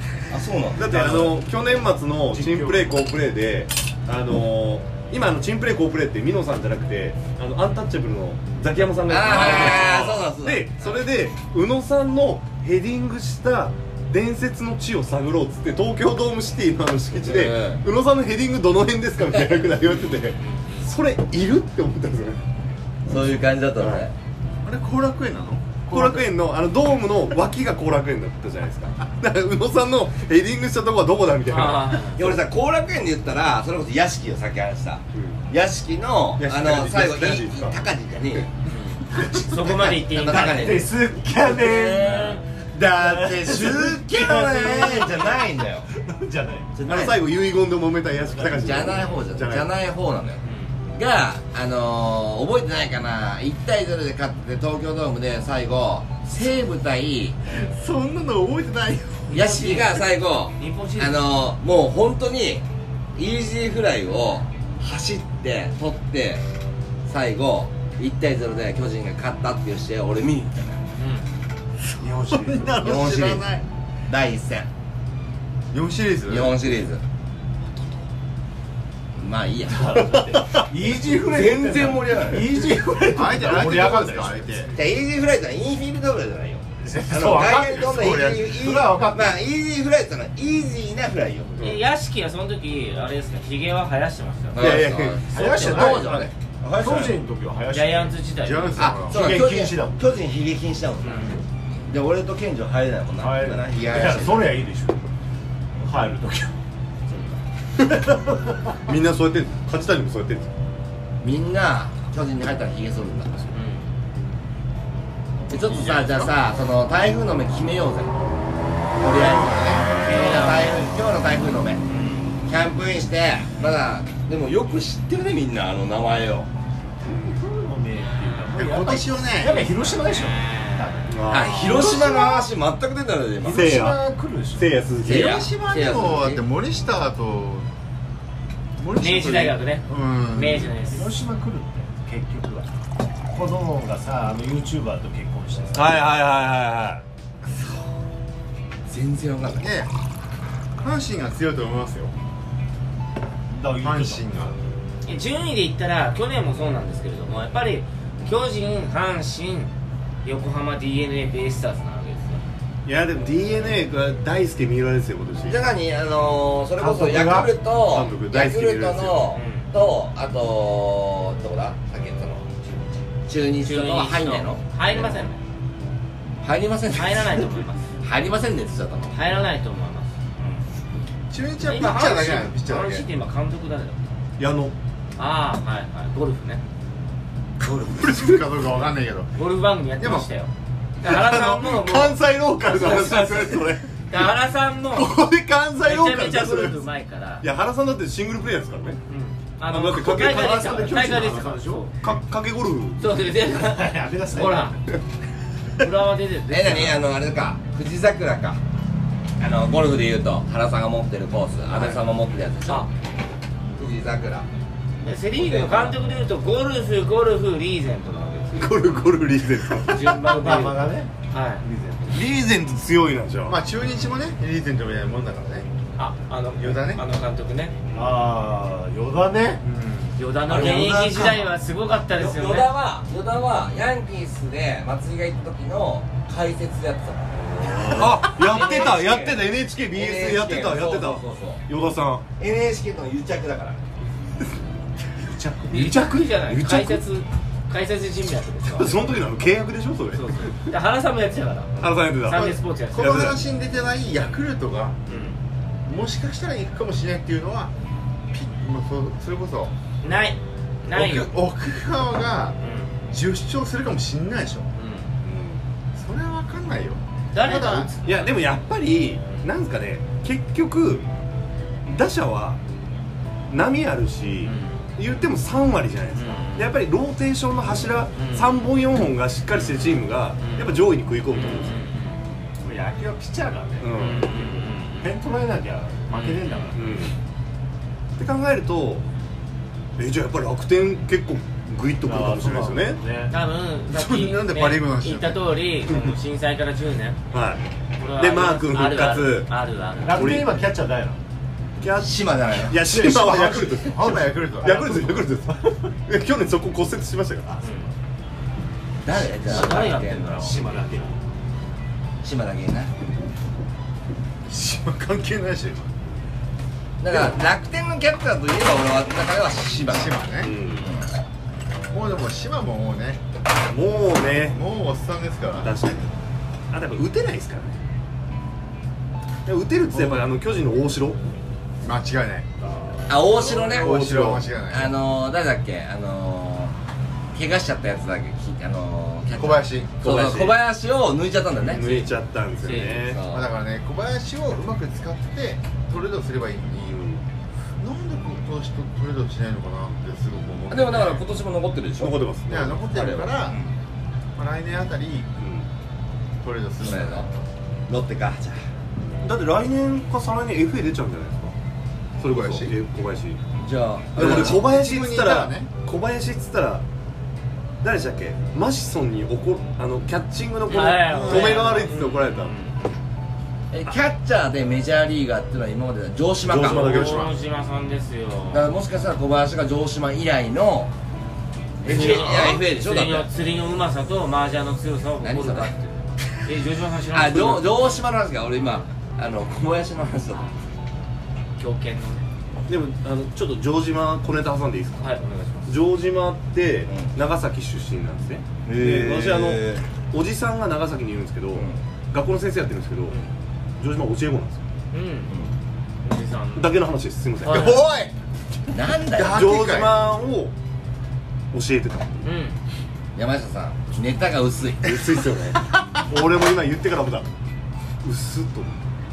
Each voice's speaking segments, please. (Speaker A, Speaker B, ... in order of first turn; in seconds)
Speaker A: 0.3-1.1, 9.1-11.0, 17.1-17.8, 23.1-24.1, 32.1-38.5, 39.1-40.9, 41.5-45.9, 46.8-47.2, 48.5-50.4, 51.0-57.4, 59.3-62.6, 63.2-66.4, 67.1-70.8, 72.8-73.5, 74.1-74.7, 76.3-77.0, 79.1-80.2, 81.2-82.5, 84.7-91.6, 94.5-97.2, 98.8-104.6, 111.2-113.5, 115.5-118.2, 119.0-121.8, 122.5-126.5, 131.3-133.8, 135.0-136.4, 148.9-149.7, 165.5-175.3, 176.4-179.2, 206.5-208.6, 209.4-212.9, 213.8-214.5, 215.4-216.0, 230.5-231.4, 232.2-241.7, 242.4-243.8, 302.0-302.8, 309.0-310.6, 312.2-312.9, 317.0-320.2, 320.8-321.1, 333.1-334.0, 334.7-336.8, 337.4-342.1, 343.0-343.5, 350.7-352.2, 352.9-353.7, 356.8-357.3, 357.9-358.6, 363.6-364.7, 373.7-377.0, 378.5-380.9, 381.8-383.3, 385.2-385.7, 387.1-390.5, 396.9-397.1, 398.7-399.8, 405.3-405.5, 408.7-409.5, 413.2-415.0
Speaker B: 0.8-22.4, 23.8-24.1, 25.9-32.2, 35.1-35.4, 36.4-37.8, 46.8-49.7, 91.5-91.9, 94.6-96.3, 108.8-110.5, 131.1-132.2, 133.5-134.0, 134.6-135.4, 145.7-147.0, 162.9-165.6, 167.8-169.3, 184.4-184.8, 191.0-194.3, 194.9-196.9, 197.4-199.0, 199.7-201.2, 202.0-203.2, 218.5-220.2, 222.1-223.6, 230.6-231.0, 237.4-242.2, 245.7-247.0, 248.6-250.7, 251.8-253.4, 265.2-265.6, 268.0-271.1, 271.9-272.6, 273.5-281.9, 283.8-284.4, 286.8-287.1, 288.2-289.0, 290.0-293.0, 295.9-296.1, 297.3-297.6, 298.1-299.5, 300.1-300.6, 301.8-304.0, 304.6-307.6, 320.4-320.9, 323.7-324.6, 325.5-326.1, 326.7-327.8, 329.5-331.2, 333.4-334.5, 340.0-340.6, 341.6-343.2, 346.9-347.2, 352.0-352.9, 355.4-355.7, 359.2-361.5, 362.2-363.4, 364.1-366.9, 367.8-372.5, 376.4-377.4, 381.9-382.6, 392.7-395.1, 395.7-403.2, 403.8-404.6, 406.5-407.8, 409.2-410.5, 411.5-412.2, 414.8-417.3, 418.0-418.7
Speaker C: 0.8-1.4, 2.2-3.0, 9.3-9.7, 40.3-46.8, 48.3-49.0, 72.0-73.0, 79.7-84.7, 86.8-89.4, 95.3-96.2, 96.8-98.1, 99.1-100.2, 103.2-105.0, 105.8-106.5, 107.8-108.5, 127.1-131.1, 133.4-134.8, 140.9-142.7, 143.3-146.0, 153.5-154.6, 166.8-167.5, 200.1-201.9, 203.6-204.8, 220.3-222.2, 227.9-229.7, 245.2-246.1, 282.6-286.8, 292.0-293.4, 300.0-301.2, 302.8-305.3, 307.4-307.9, 310.4-311.2
Speaker D: 20.2-20.9, 31.4-32.4, 38.7-40.9, 42.2-42.4, 50.4-50.8, 59.3-60.0, 60.6-61.2, 71.0-71.3, 91.6-94.8, 95.4-95.7, 97.7-99.0, 101.0-101.4, 113.5-113.9, 119.2-120.9, 121.9-122.3, 129.9-131.1, 139.0-141.2, 155.1-159.7, 160.2-162.4, 169.3-169.7, 173.6-175.4, 176.9-177.9, 179.1-180.6, 181.6-184.0, 185.2-186.6, 188.9-190.5, 191.0-195.2, 195.8-197.5, 199.1-202.1, 203.0-204.8, 205.8-207.0, 211.8-212.0, 212.7-212.9, 215.0-218.9, 219.8-221.7, 223.8-224.2, 226.0-227.8, 230.2-232.7, 245.7-249.2, 250.1-253.4, 255.1-255.4, 260.0-261.3, 262.6-262.9, 264.8-265.1, 267.3-268.5, 274.4-274.8, 276.1-276.8, 278.1-278.6, 279.5-282.2, 283.9-285.3, 286.1-286.8, 293.3-297.2, 298.0-300.4, 307.6-307.9, 309.3-311.2, 342.6-343.1, 370.7-373.0, 376.7-378.7, 381.8-387.8, 391.6-392.3, 395.0-395.9, 404.9-405.3, 406.0-406.8, 407.4-407.9, 412.2-412.6
Speaker E: 24.6-26.3, 57.5-59.4, 72.1-73.7, 75.7-76.6, 83.0-84.7, 87.4-88.4, 98.4-99.3, 119.0-119.9, 128.5-129.7, 132.2-132.4, 135.0-137.7, 138.8-140.7, 149.6-149.9, 150.8-152.1, 153.8-154.6, 181.3-183.1, 187.6-189.3, 190.0-190.3, 223.5-225.7, 226.6-227.0, 229.6-230.2, 252.9-255.1, 255.9-257.7, 258.3-259.7, 260.9-262.6, 263.1-264.7, 266.0-267.9, 293.9-295.6, 303.1-305.1, 314.5-315.9, 319.9-320.6, 321.9-323.2, 324.2-325.9, 331.8-332.6, 333.6-334.9, 339.4-340.0, 343.3-347.1, 347.8-351.2, 352.5-353.6, 354.4-355.3, 356.4-357.3, 362.2-362.7, 364.2-365.7, 407.5-408.1, 409.2-410.1